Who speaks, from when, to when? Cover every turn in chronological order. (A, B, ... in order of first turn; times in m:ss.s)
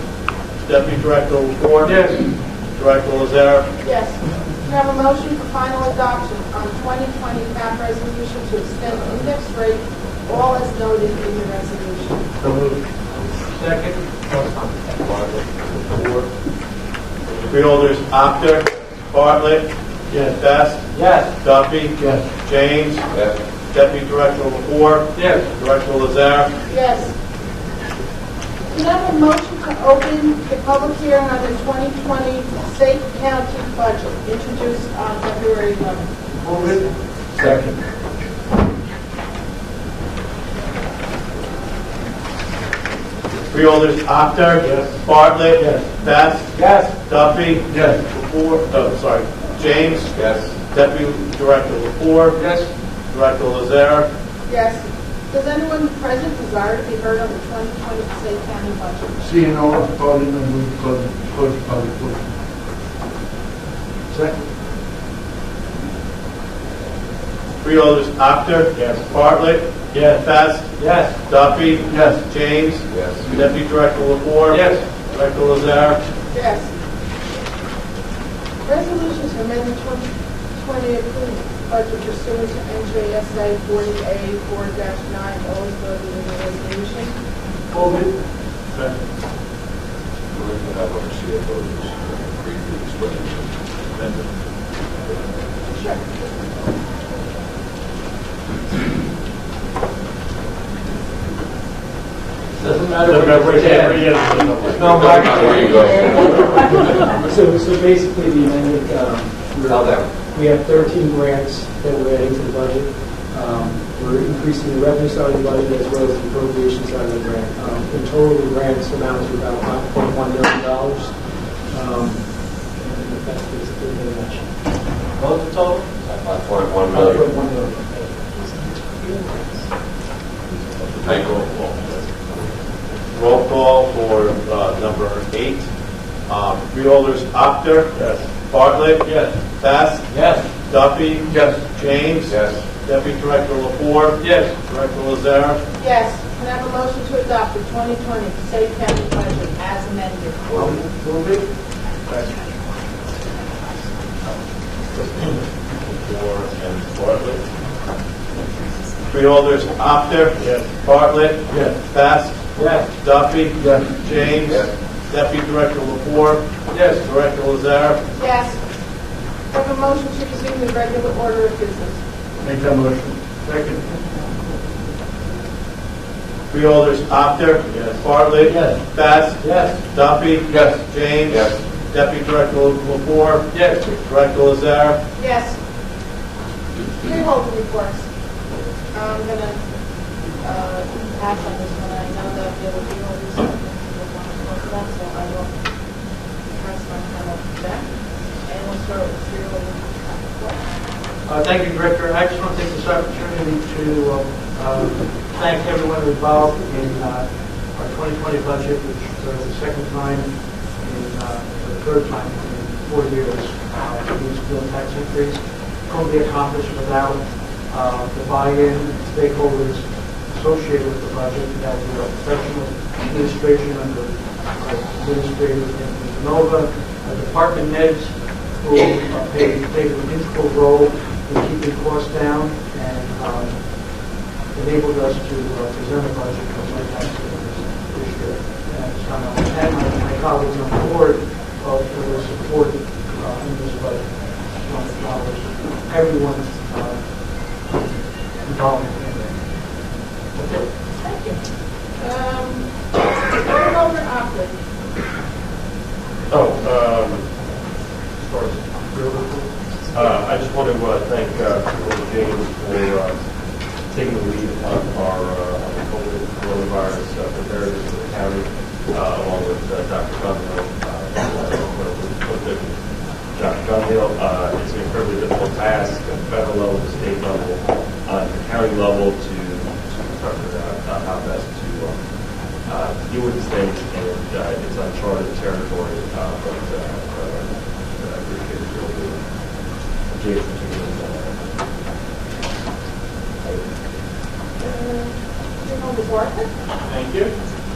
0:00.6-0:03.8 A
0:01.8-0:02.4 B
0:03.8-0:12.3 C
0:12.4-0:12.8 D
0:13.4-0:15.2 B
0:15.9-0:16.3 A
0:17.5-0:19.7 A
0:20.2-0:20.9 A
0:20.9-0:21.4 B
0:21.4-0:23.1 A
0:22.0-0:22.3 D
0:23.7-0:26.6 A
0:25.1-0:25.5 B
0:26.7-0:27.1 C
0:28.7-0:37.0 C
0:36.3-0:36.9 B
0:37.4-0:37.7 D
0:43.5-0:52.4 A
0:46.6-0:46.9 B
0:47.7-0:47.9 D
0:52.3-0:52.7 B
0:53.1-0:54.1 A
0:54.5-0:59.2 C
0:59.2-1:02.3 D
1:04.1-1:04.4 D
1:07.6-1:16.1 A
1:08.8-1:09.0 B
1:10.8-1:11.2 B
1:11.9-1:12.2 D
1:14.5-1:14.8 B
1:16.3-1:16.7 C
1:18.6-1:27.2 C
1:27.7-1:29.0 B
1:30.3-1:31.8 E
1:32.3-1:33.4 E
1:35.7-1:36.0 C
1:42.6-1:44.5 B
1:43.0-1:44.8 D
1:44.8-1:45.9 E
1:47.2-2:04.5 F
2:06.9-2:08.2 F
2:13.1-2:20.1 A
2:20.6-2:25.6 A
2:24.2-2:24.6 B
2:25.8-2:30.5 C
2:30.5-2:31.5 B
2:32.1-2:32.3 B
2:35.9-2:37.4 A
2:39.1-2:48.1 A
2:41.5-2:41.8 D
2:42.6-2:42.8 B
2:43.6-2:44.0 D
2:48.1-2:48.7 C
2:49.5-2:52.0 C
2:52.4-2:53.7 D
2:53.5-2:53.8 B
2:56.5-3:05.0 A
2:58.5-2:58.8 B
2:59.4-2:59.8 B
3:00.5-3:00.8 D
3:03.5-3:03.9 B
3:05.2-3:05.6 C
3:07.0-3:08.1 C
3:08.9-3:20.6 C
3:21.2-4:09.7 B
4:10.3-4:10.7 B
4:11.0-4:11.4 C
4:12.0-4:14.6 C
4:16.3-4:17.3 G
4:18.2-4:19.5 B
4:19.9-4:51.5 G
4:53.4-4:53.8 G
4:54.6-4:56.5 C